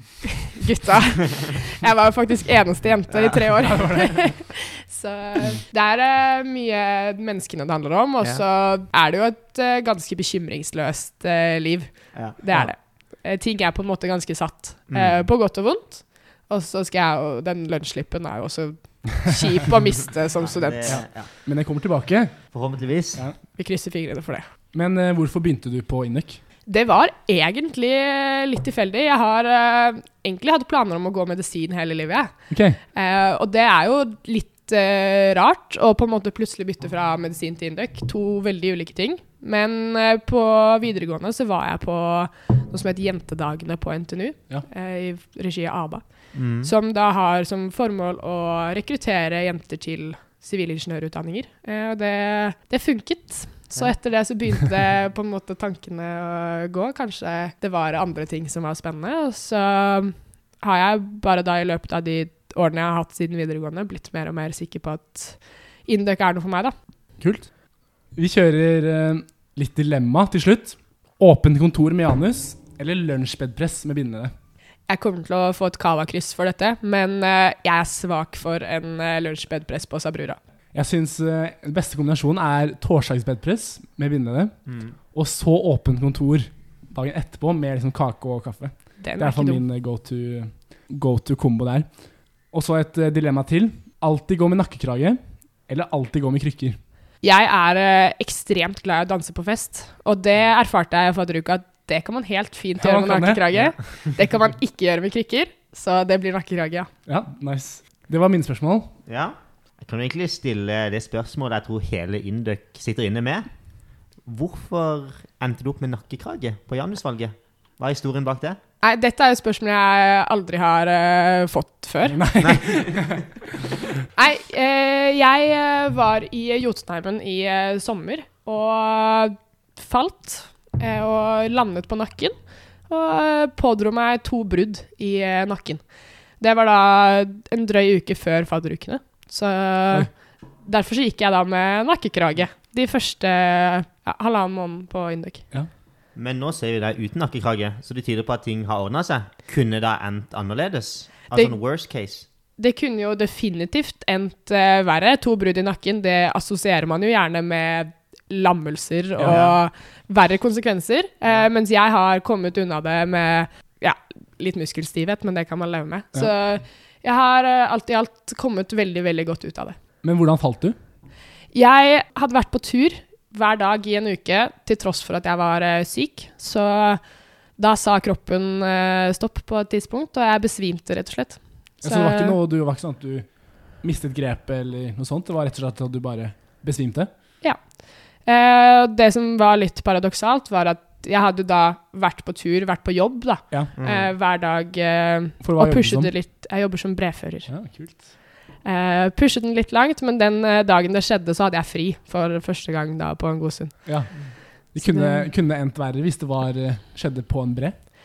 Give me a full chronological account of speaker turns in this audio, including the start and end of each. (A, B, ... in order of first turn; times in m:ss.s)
0:00.4-0:20.9 A
0:03.1-0:03.8 B
0:03.6-0:04.3 C
0:12.1-0:12.6 B
0:14.9-0:15.2 B
0:20.4-0:21.3 B
0:20.8-0:22.4 C
0:22.5-0:23.3 B
0:23.6-0:24.4 A
0:24.7-0:26.4 C
0:26.7-0:32.3 A
0:32.5-0:32.8 C
0:32.9-0:46.0 A
0:46.3-0:46.7 B
0:46.6-1:06.8 A
1:07.2-1:07.5 C
1:08.2-1:14.3 C
1:14.9-1:20.4 A
1:20.7-1:24.6 C
1:24.7-1:25.0 B
1:25.1-1:31.9 C
1:29.0-1:29.6 A
1:32.5-1:36.8 C
1:37.2-1:46.9 A
1:42.8-1:43.4 C
1:47.1-1:48.9 C
1:49.1-1:53.5 B
1:54.3-1:58.6 B
1:58.8-2:02.2 A
2:02.1-2:03.3 C
2:02.4-2:03.3 B
2:04.2-2:12.4 A
2:12.9-2:15.8 A
2:16.4-2:20.1 A
2:20.6-2:25.4 A
2:26.2-2:32.3 B
2:32.6-2:49.8 A
2:39.3-2:39.6 B
2:50.0-2:50.8 C
2:51.5-2:57.0 A
2:57.6-3:02.4 A
3:01.8-3:03.3 C
3:03.8-3:07.1 C
3:08.2-3:17.5 A
3:13.8-3:14.1 B
3:15.4-3:16.1 C
3:17.5-3:18.0 C
3:18.6-3:23.8 A
3:24.7-3:27.8 C
3:24.8-3:25.3 A